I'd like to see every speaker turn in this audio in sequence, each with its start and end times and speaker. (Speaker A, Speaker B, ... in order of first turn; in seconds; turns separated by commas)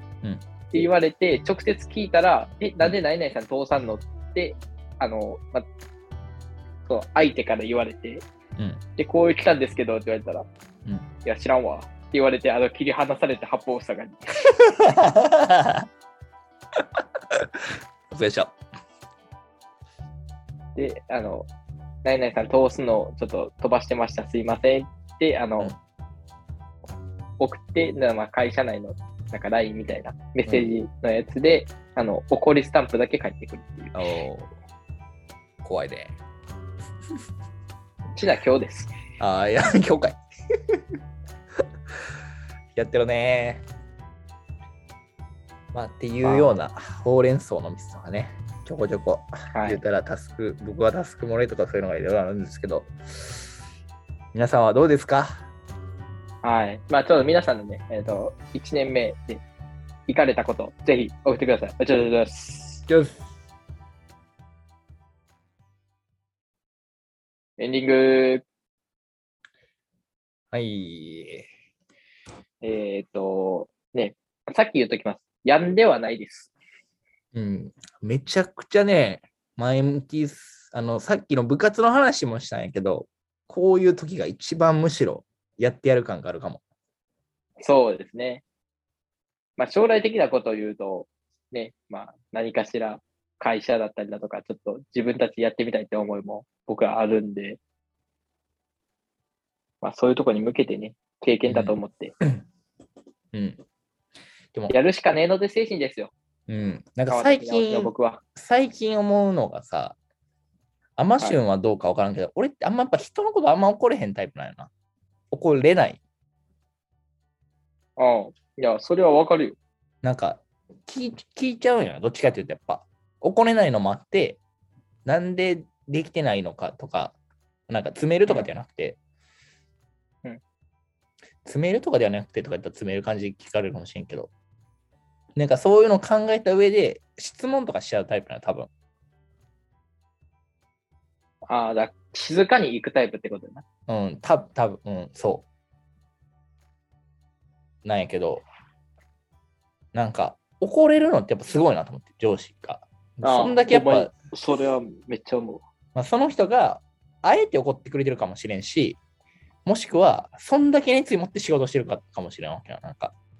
Speaker A: 0.7-5.6, Speaker A: 6.9-8.2, Speaker A: 9.0-10.5, Speaker A: 11.2-14.3, Speaker B: 14.6-15.8, Speaker B: 16.8-18.5, Speaker A: 20.8-21.5, Speaker A: 22.0-25.7, Speaker A: 27.4-34.0, Speaker B: 33.9-34.5, Speaker B: 35.6-36.1, Speaker A: 38.1-38.9, Speaker B: 39.2-40.8, Speaker B: 42.7-43.6, Speaker B: 45.7-53.4, Speaker A: 46.2-46.5, Speaker A: 49.5-49.8, Speaker B: 54.3-55.4, Speaker A: 56.4-59.4, Speaker A: 60.1-62.8, Speaker B: 62.9-63.2, Speaker A: 67.6-68.4, Speaker B: 70.5-71.5, Speaker A: 72.6-76.5, Speaker B: 77.3-86.6, Speaker A: 87.6-88.4, Speaker A: 89.6-97.6, Speaker A: 99.8-102.1, Speaker B: 101.5-102.4, Speaker B: 103.3-103.6, Speaker A: 104.7-106.1, Speaker B: 106.5-110.0, Speaker A: 107.1-108.2, Speaker B: 111.0-114.7, Speaker B: 115.3-116.0, Speaker A: 118.0-119.6, Speaker B: 120.0-124.4, Speaker B: 125.0-127.2, Speaker B: 127.7-129.0, Speaker B: 131.4-134.3, Speaker B: 135.3-138.7, Speaker A: 141.5-143.6, Speaker B: 143.9-145.4, Speaker B: 147.8-148.4, Speaker B: 149.9-154.1, Speaker A: 153.2-155.6, Speaker B: 155.9-159.0, Speaker B: 159.6-163.1